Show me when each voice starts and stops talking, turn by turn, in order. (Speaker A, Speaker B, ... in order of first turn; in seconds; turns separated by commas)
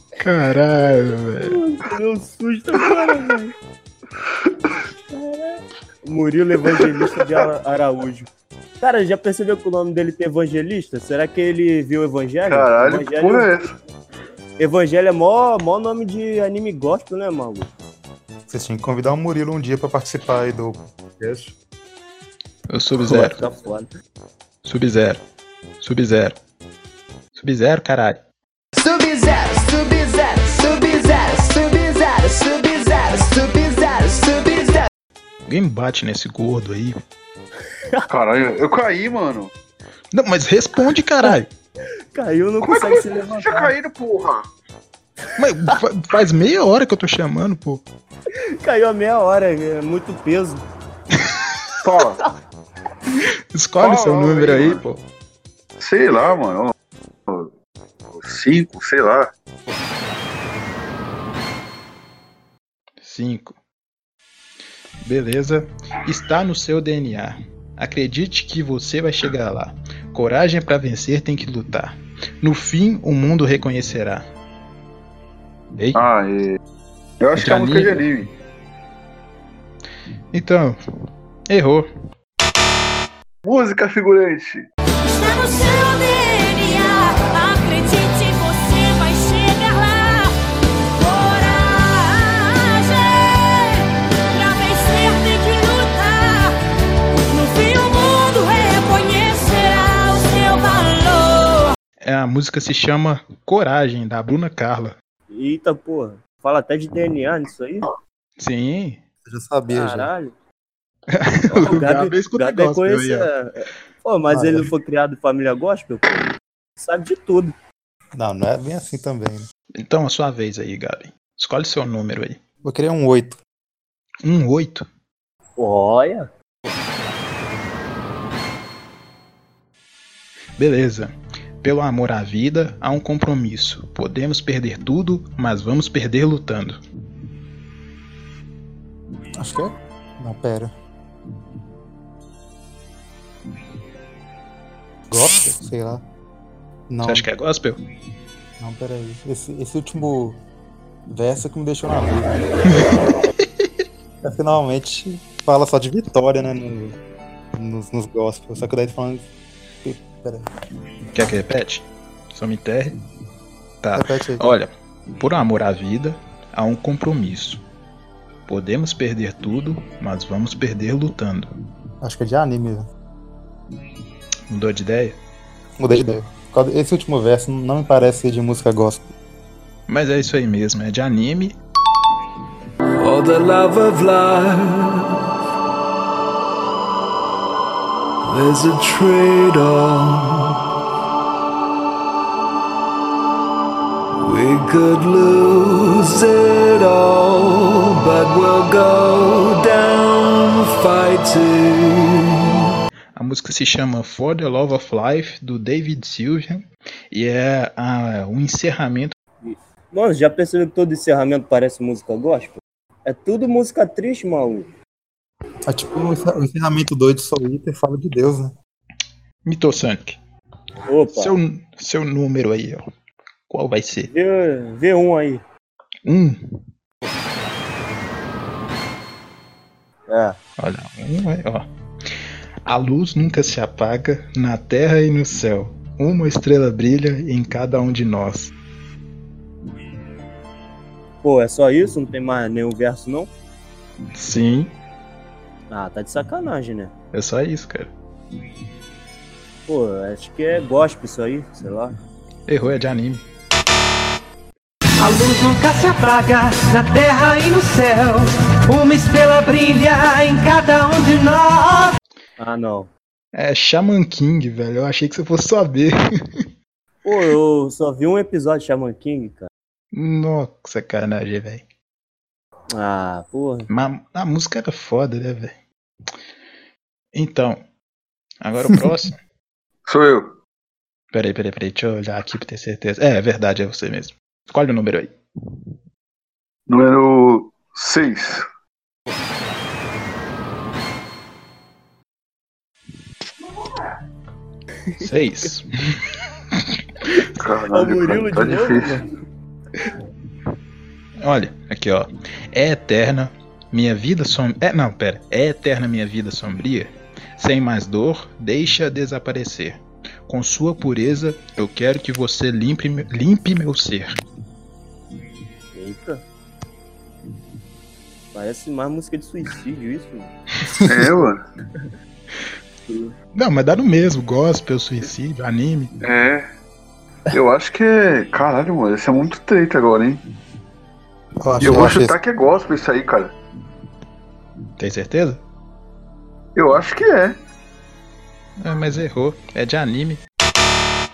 Speaker A: 0.2-1.6, Speaker B: 1.4-3.5, Speaker B: 5.1-8.3, Speaker B: 8.8-13.5, Speaker C: 12.5-13.7, Speaker B: 14.6-17.7, Speaker D: 18.5-21.5, Speaker A: 22.7-23.4, Speaker B: 23.1-23.9, Speaker A: 24.6-25.2, Speaker A: 25.8-26.4, Speaker A: 27.4-28.2, Speaker E: 28.8-34.8, Speaker A: 35.5-37.0, Speaker C: 38.1-39.5, Speaker A: 40.1-41.5, Speaker B: 42.1-43.7, Speaker C: 42.6-44.5, Speaker A: 45.4-47.8, Speaker B: 48.6-50.6, Speaker C: 51.8-52.2, Speaker A: 53.5-55.0, Speaker C: 53.8-54.8, Speaker C: 55.8-56.7, Speaker C: 58.1-59.3, Speaker A: 63.0-63.6, Speaker A: 65.0-74.3, Speaker A: 75.8-76.0, Speaker C: 76.0-76.6, Speaker C: 77.2-78.3, Speaker A: 77.3-78.0, Speaker A: 80.3-80.8, Speaker A: 81.5-81.9, Speaker C: 83.4-84.7, Speaker F: 85.0-90.3, Speaker F: 91.0-96.6, Speaker F: 97.1-101.7, Speaker A: 102.0-105.0, Speaker B: 105.3-107.9, Speaker A: 108.4-109.0, Speaker D: 109.2-110.1, Speaker B: 109.7-110.3, Speaker A: 111.1-113.3, Speaker B: 111.5-116.3, Speaker D: 114.3-114.7, Speaker B: 116.8-117.5, Speaker D: 118.2-119.5, Speaker A: 119.8-122.4, Speaker D: 122.6-123.4, Speaker A: 124.2-124.9, Speaker B: 125.6-126.3, Speaker A: 130.6-136.8, Speaker D: 139.4-140.7, Speaker D: 145.1-146.0, Speaker D: 146.9-147.2, Speaker A: 147.0-147.8, Speaker D: 148.6-150.4, Speaker D: 151.1-152.4, Speaker A: 152.8-153.7, Speaker D: 154.2-157.0, Speaker D: 157.6-159.3, Speaker D: 159.8-160.4, Speaker A: 161.1-163.0, Speaker A: 163.8-167.6, Speaker D: 163.9-164.5, Speaker A: 168.5-171.5, Speaker D: 172.0-172.9, Speaker A: 174.5-175.2, Speaker D: 175.8-179.1, Speaker A: 179.9-181.6, Speaker G: 183.0-185.1, Speaker G: 188.2-190.5, Speaker G: 194.2-202.5, Speaker A: 203.2-209.1, Speaker B: 209.4-214.7, Speaker D: 215.7-218.5, Speaker A: 219.4-220.2, Speaker B: 220.9-221.3, Speaker A: 221.1-222.8, Speaker A: 223.5-224.1, Speaker B: 224.1-225.4, Speaker A: 226.1-226.6, Speaker B: 230.1-230.4, Speaker A: 230.6-231.7, Speaker A: 232.7-238.5, Speaker B: 241.2-243.3, Speaker A: 244.2-244.7, Speaker B: 245.7-246.9, Speaker A: 247.1-247.9, Speaker B: 249.7-251.9, Speaker A: 252.5-253.2, Speaker H: 255.0-261.9, Speaker B: 262.4-262.9, Speaker A: 263.3-266.5, Speaker B: 267.1-269.5, Speaker A: 269.9-271.7, Speaker B: 272.7-273.7, Speaker A: 273.7-275.6, Speaker A: 277.1-277.6, Speaker A: 278.4-279.2, Speaker C: 279.9-280.4, Speaker A: 281.1-285.2, Speaker C: 286.7-288.4, Speaker A: 295.0-296.0, Speaker B: 297.2-299.1, Speaker C: 297.4-299.0, Speaker A: 301.2-314.1, Speaker B: 315.7-316.2, Speaker B: 318.3-320.3, Speaker C: 320.9-321.4, Speaker A: 323.3-325.9, Speaker C: 326.0-326.5, Speaker C: 327.3-330.2, Speaker D: 331.4-332.2, Speaker C: 331.6-333.3, Speaker A: 334.8-335.4, Speaker C: 336.6-337.4, Speaker A: 338.6-340.2